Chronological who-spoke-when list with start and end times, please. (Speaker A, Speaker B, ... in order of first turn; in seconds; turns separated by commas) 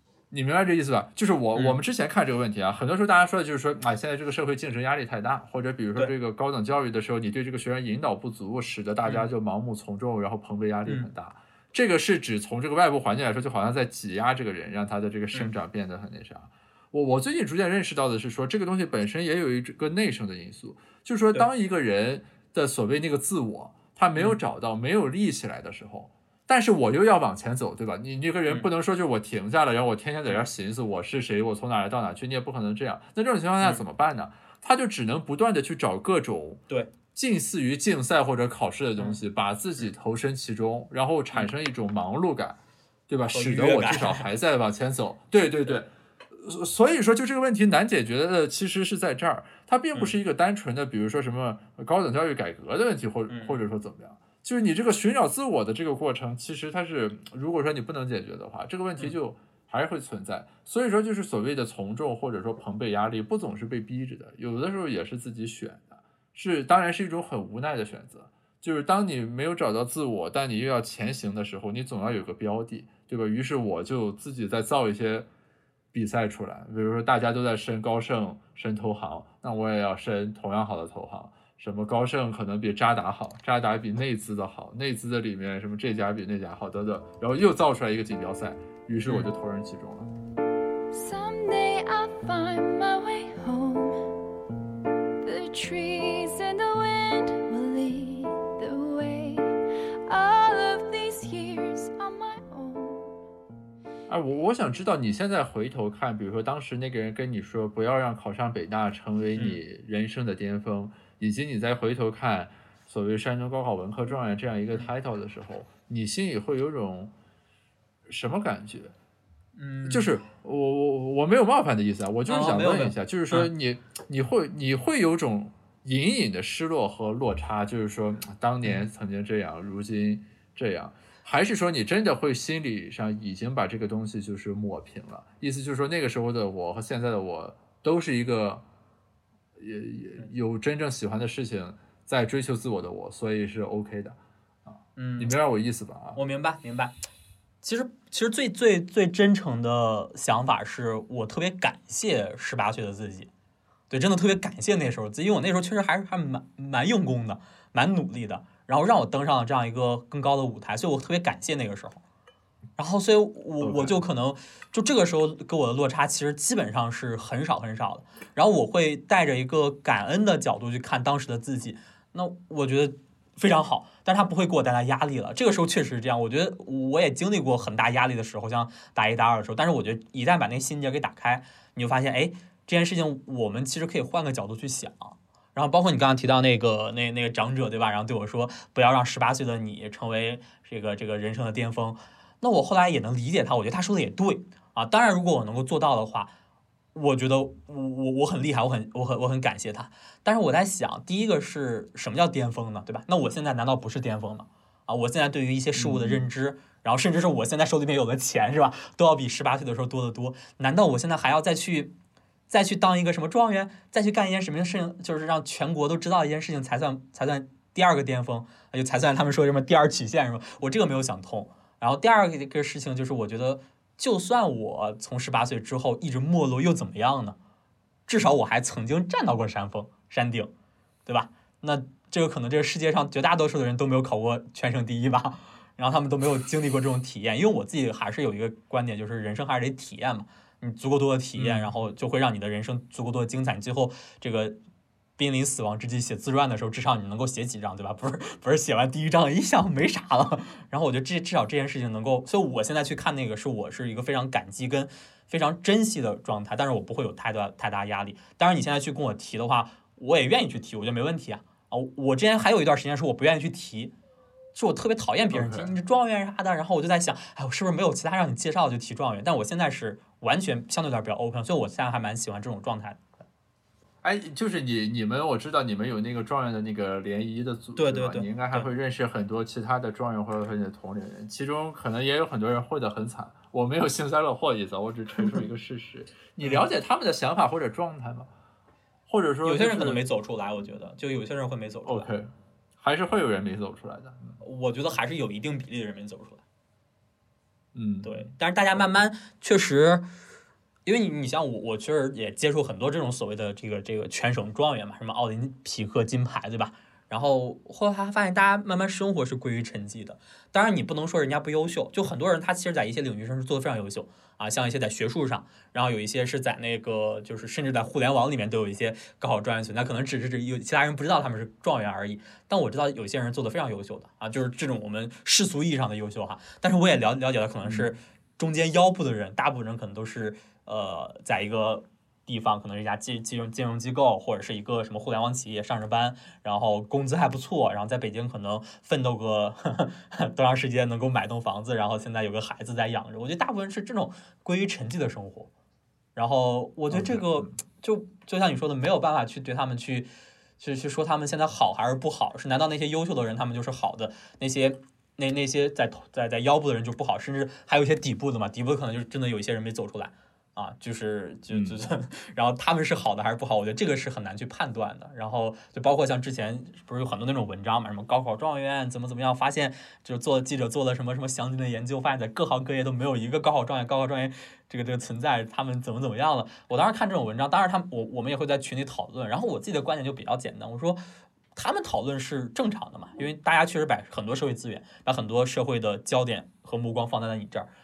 Speaker A: 0.3-75.3, Speaker B: 9.1-9.3, Speaker B: 43.3-44.2, Speaker B: 53.3-53.6, Speaker A: 75.9-90.1, Speaker C: 90.9-94.1, Speaker C: 95.2-99.5, Speaker C: 100.1-103.1, Speaker A: 104.1-117.1, Speaker A: 118.1-118.9, Speaker B: 119.6-120.1, Speaker A: 119.9-138.6, Speaker B: 122.3-123.5, Speaker A: 139.6-146.2, Speaker B: 145.0-145.4, Speaker B: 146.2-146.9, Speaker B: 147.6-153.3, Speaker B: 153.9-162.0, Speaker B: 162.8-196.3, Speaker A: 163.6-164.0, Speaker B: 196.9-211.9, Speaker A: 205.7-206.2, Speaker B: 212.5-227.4, Speaker B: 228.1-230.5, Speaker B: 231.1-244.6, Speaker A: 241.4-241.7, Speaker B: 245.2-263.9, Speaker B: 264.6-273.0, Speaker A: 265.3-265.7, Speaker A: 274.0-288.3, Speaker B: 277.8-278.7, Speaker A: 289.1-290.0, Speaker B: 289.4-292.1, Speaker A: 291.9-294.4, Speaker B: 294.4-296.4, Speaker A: 297.7-298.3, Speaker B: 298.0-300.1, Speaker B: 300.9-345.5, Speaker A: 327.6-327.9, Speaker B: 346.2-381.0, Speaker A: 346.9-347.6, Speaker A: 361.5-361.8, Speaker B: 381.6-387.7